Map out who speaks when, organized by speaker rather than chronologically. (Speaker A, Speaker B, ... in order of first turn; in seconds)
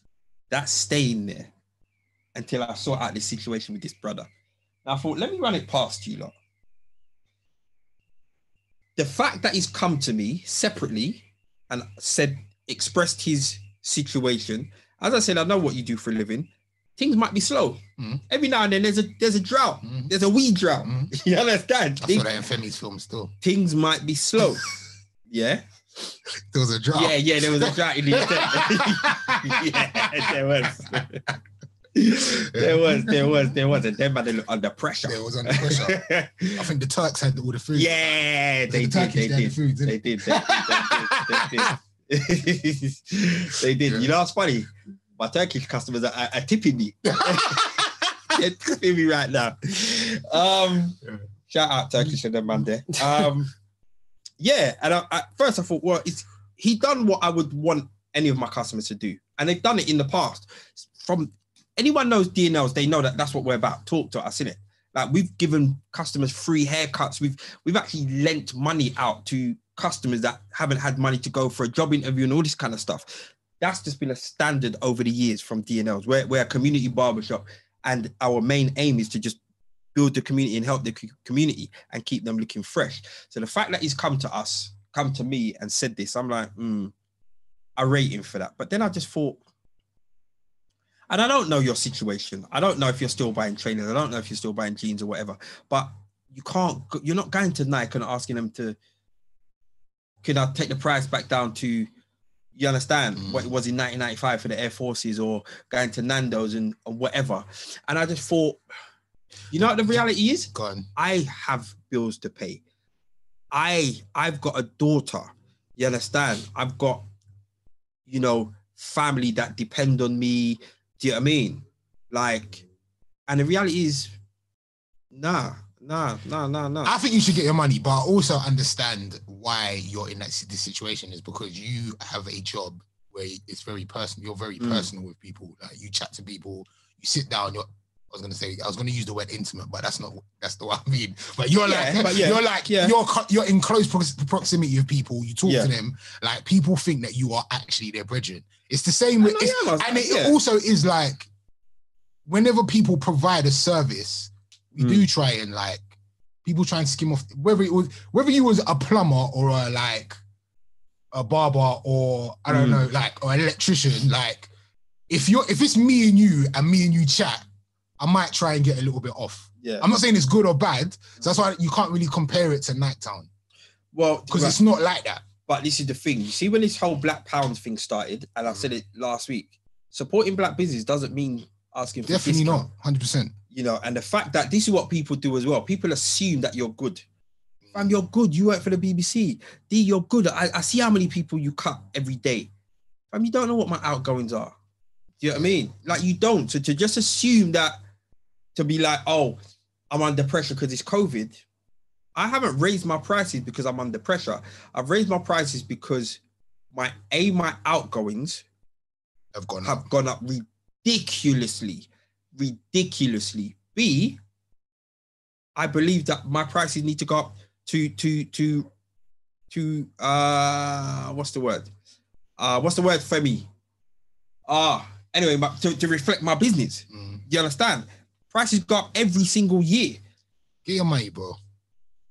Speaker A: 0.5-1.5, 2.4-4.3, 4.8-6.3, 9.0-22.3, 23.4-24.7, 25.3-26.1, 26.9-31.2, 32.0-36.6, 37.8-53.5, 54.4-79.4, 80.0-86.9, 87.8-89.4, 91.1-98.8, 100.2-101.9, 102.5-108.6, 109.5-112.6, 113.5-117.1, 118.1-122.6, 123.3-124.1, 125.1-126.9, 134.6-134.9, 141.7-142.9, 145.5-145.7, 149.2-150.4, 154.8-155.1, 162.5-162.8, 169.6-169.9, 173.9-174.6, 175.5-182.7, 183.5-187.0, 187.7-192.5, 193.1-194.6, 195.2-197.8, 198.6-199.4, 199.9-201.4, 202.2-206.2, 206.7-208.4, 209.6-214.2, 215.6-218.7, 219.5-221.7, 222.4-223.5, 224.5-230.0
Speaker B: 19.8-20.1, 20.8-21.1, 22.0-23.3, 26.5-30.4, 32.5-33.2, 35.0-38.1, 38.7-41.7, 43.8-44.1, 47.2-47.8, 103.2-103.5, 109.6-110.9, 126.8-151.3, 152.3-155.8, 156.4-160.2, 161.1-164.5, 165.1-167.4, 168.0-173.3, 174.3-175.2, 182.1-183.3, 187.7-188.0, 195.3-195.6, 209.3-209.8, 226.9-227.2, 230.7-231.4